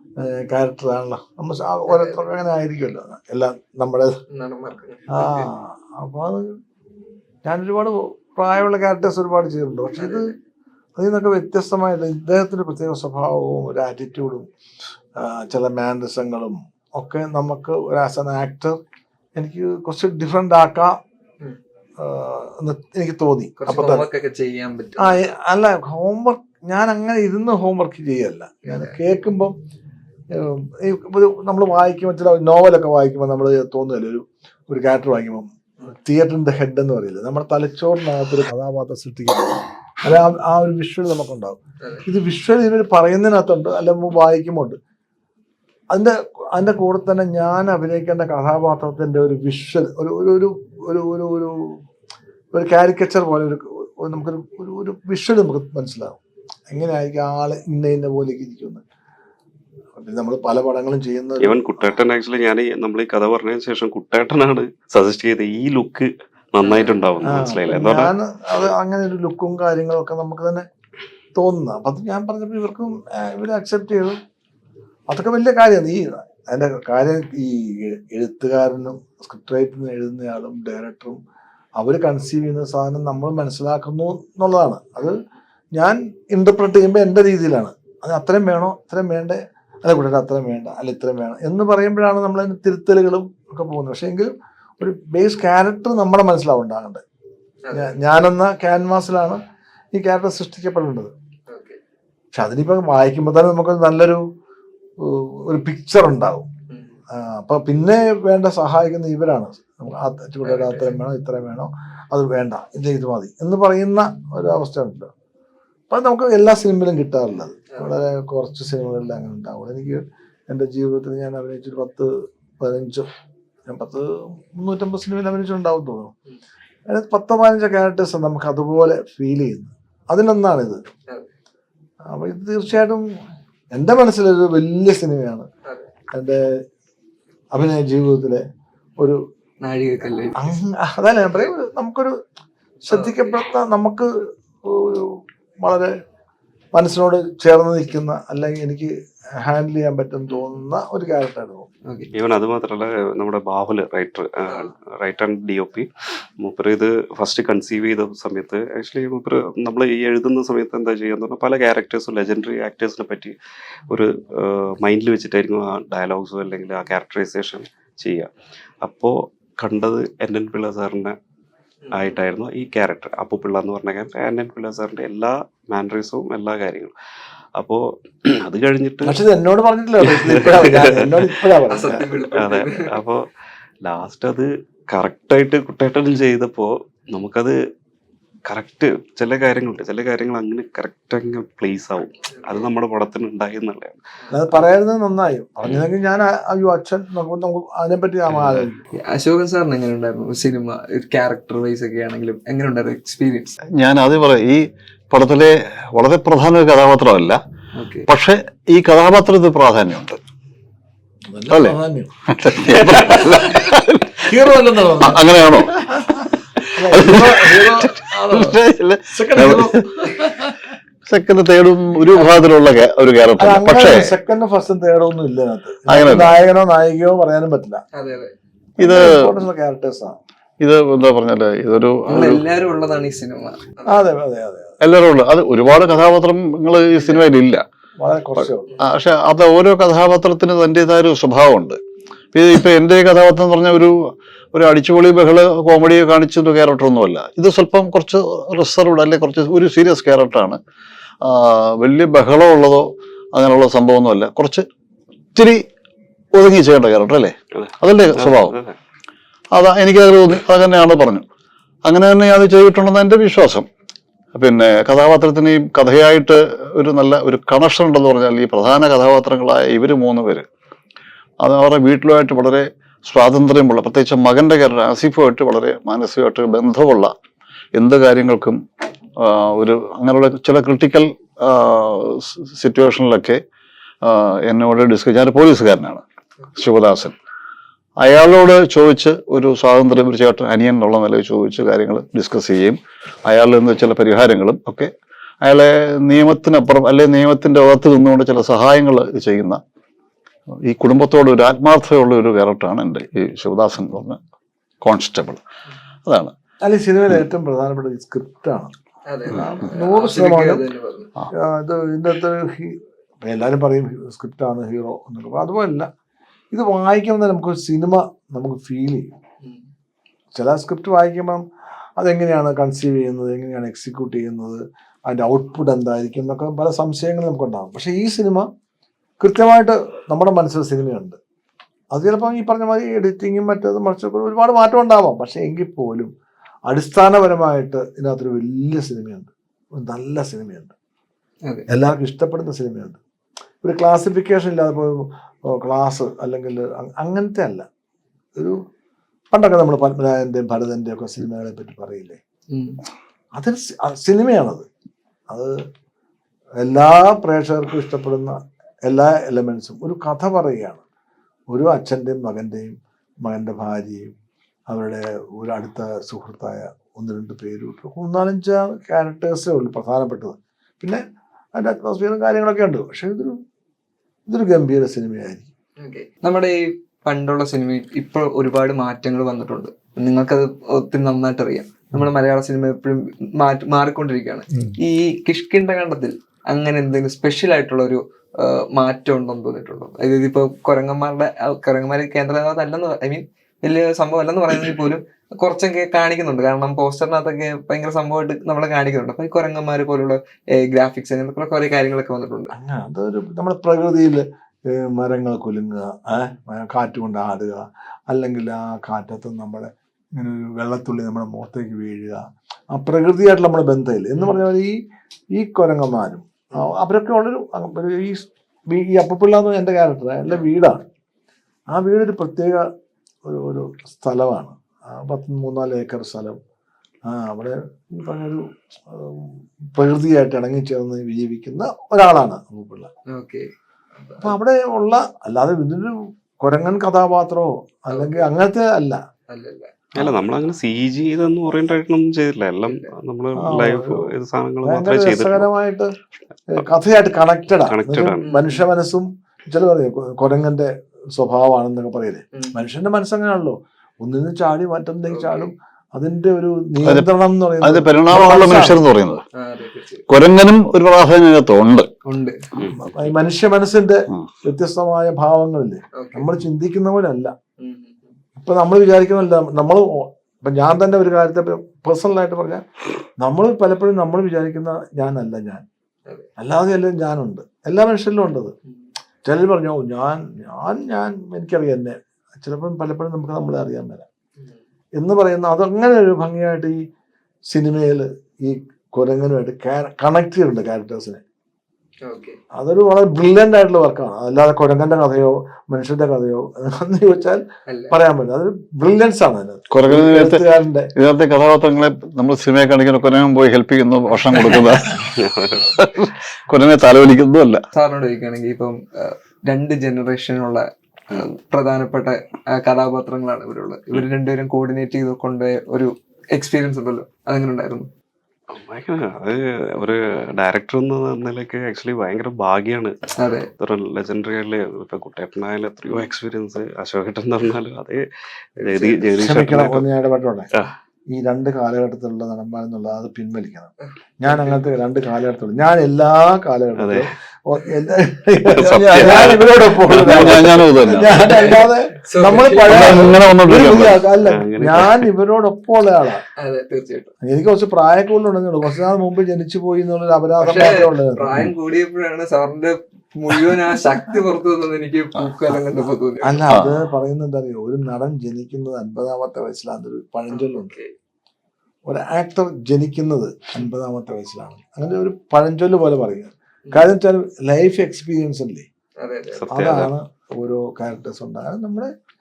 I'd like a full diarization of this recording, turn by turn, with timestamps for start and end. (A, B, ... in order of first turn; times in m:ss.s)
0:00.2-0:04.2 A
0:01.9-0:02.2 B
0:04.3-0:05.5 B
0:05.1-0:06.4 A
0:07.4-0:10.3 A
0:10.0-0:10.3 B
0:11.0-0:14.5 A
0:15.2-0:18.8 A
0:19.4-0:21.0 A
0:22.0-0:24.0 A
0:23.6-0:25.3 B
0:25.0-0:29.5 A
0:28.6-0:29.0 B
0:30.4-0:44.8 A
0:45.9-0:51.5 A
0:52.5-0:56.2 A
0:56.7-0:58.8 A
1:00.0-1:02.0 A
1:01.4-1:08.1 C
1:06.6-1:07.0 B
1:07.2-1:10.6 A
1:11.4-1:14.2 A
1:15.1-1:21.2 A
1:21.8-1:25.2 A
1:25.8-1:37.0 A
1:37.6-1:37.9 B
1:37.7-1:39.4 A
1:39.9-1:41.1 A
1:41.5-1:41.8 B
1:42.3-1:44.2 A
1:45.0-1:46.5 A
1:46.7-1:47.0 B
1:47.1-1:55.1 A
1:50.4-1:51.0 B
1:55.9-2:02.1 A
2:02.6-2:03.1 A
2:03.7-2:06.1 A
2:06.9-2:10.8 A
2:12.1-2:13.0 A
2:13.7-2:15.5 A
2:16.1-2:16.5 A
2:17.5-2:18.4 A
2:19.6-2:20.4 B
2:20.4-2:22.1 A
2:21.2-2:21.5 B
2:22.8-2:24.1 A
2:22.9-2:23.4 B
2:24.6-2:25.9 A
2:26.7-2:31.7 A
2:32.1-2:35.9 C
2:34.5-2:34.7 B
2:36.4-2:43.3 C
2:43.9-2:48.3 C
2:48.8-2:51.1 C
2:51.9-2:56.9 C
2:57.6-2:57.8 C
2:58.4-2:59.2 C
2:59.0-3:02.0 A
3:00.1-3:01.2 C
3:01.7-3:02.9 B
3:02.3-3:03.2 C
3:03.8-3:07.6 C
3:08.5-3:14.0 C
3:12.4-3:12.6 B
3:14.3-3:18.8 A
3:19.1-3:23.5 B
3:23.8-3:27.4 D
3:27.7-3:28.1 B
3:28.1-3:30.2 D
3:31.3-3:33.5 A
3:32.3-3:34.2 D
3:34.2-3:36.1 A
3:35.0-3:35.7 D
3:36.8-3:38.5 A
3:36.9-3:39.8 D
3:39.1-3:40.7 A
3:41.1-3:44.1 D
3:43.4-3:47.8 A
3:45.9-3:46.4 D
3:47.9-3:48.3 B
3:48.8-3:49.2 D
3:48.8-3:50.2 A
3:50.6-3:52.4 D
3:52.1-3:54.1 B
3:53.8-3:54.7 A
3:54.8-3:57.6 D
3:58.0-3:58.7 A
3:58.8-4:01.8 D
4:02.3-4:03.9 D
4:04.5-4:10.6 D
4:11.2-4:14.6 D
4:15.3-4:15.6 D
4:16.3-4:18.6 D
4:17.5-4:18.8 C
4:19.5-4:21.2 D
4:21.8-4:23.7 D
4:24.3-4:30.5 D
4:31.4-4:37.1 D
4:37.7-4:38.6 D
4:39.2-4:43.4 D
4:44.0-4:46.0 D
4:46.6-4:47.1 D
4:48.0-4:54.9 D
4:55.4-4:59.6 D
5:00.7-5:04.2 D
5:04.8-5:05.4 D
5:06.1-5:06.3 D
5:06.6-5:08.7 A
5:09.1-5:11.1 B
5:09.3-5:10.7 A
5:11.4-5:15.9 A
5:16.5-5:19.1 A
5:20.3-5:21.4 A
5:22.0-5:28.5 A
5:29.2-5:31.2 A
5:31.9-5:36.1 A
5:36.7-5:40.7 A
5:41.7-5:43.0 A
5:43.6-5:47.6 A
5:49.3-5:52.2 A
5:52.5-5:52.8 B
5:53.4-5:54.6 A
5:56.6-6:00.8 A
6:01.5-6:04.1 A
6:04.7-6:11.0 A
6:11.6-6:13.4 A
6:14.3-6:15.5 A
6:15.8-6:42.5 B
6:42.5-6:52.2 A
6:52.7-6:54.8 A
6:55.3-7:00.8 A
7:01.7-7:02.6 A
7:03.3-7:06.4 A
7:07.1-7:12.9 A
7:13.1-7:14.3 B
7:14.2-7:19.0 A
7:17.9-7:18.3 B
7:19.3-7:19.7 B
7:20.0-7:25.5 C
7:23.4-7:24.1 A
7:24.6-7:25.9 A
7:26.5-7:38.8 A
7:27.5-7:28.2 C
7:28.2-7:28.6 B
7:35.1-7:35.5 B
7:36.8-7:37.1 D
7:37.6-7:39.2 D
7:39.3-7:40.0 B
7:40.1-7:41.9 D
7:42.1-7:42.4 B
7:42.8-7:47.3 A
7:46.0-7:46.3 B
7:47.6-7:48.1 B
7:48.4-7:52.6 A
7:53.2-7:55.6 A
7:56.4-7:58.5 A
7:59.2-8:04.0 A
8:05.0-8:06.8 A
8:07.5-8:11.2 A
8:12.0-8:12.4 B
8:12.5-8:20.9 A
8:17.7-8:18.0 B
8:19.7-8:20.4 D
8:21.0-8:25.0 D
8:25.1-8:25.7 C
8:25.6-8:27.6 D
8:27.7-8:37.9 B
8:38.5-8:42.9 C
8:43.2-8:43.5 B
8:43.6-8:48.0 C
8:48.6-8:49.9 C
8:48.6-8:50.5 A
8:51.1-9:06.2 A
8:54.3-8:54.6 B
8:56.8-8:57.0 C
8:58.5-9:01.0 C
8:59.9-9:01.1 D
9:01.2-9:03.1 B
9:02.7-9:04.0 D
9:04.2-9:05.0 C
9:06.4-9:07.1 B
9:07.2-9:11.4 A
9:10.4-9:16.4 B
9:16.2-9:20.7 A
9:20.3-9:20.9 B
9:21.9-9:28.6 A
9:29.0-9:29.5 B
9:29.3-9:29.9 C
9:29.5-9:31.9 A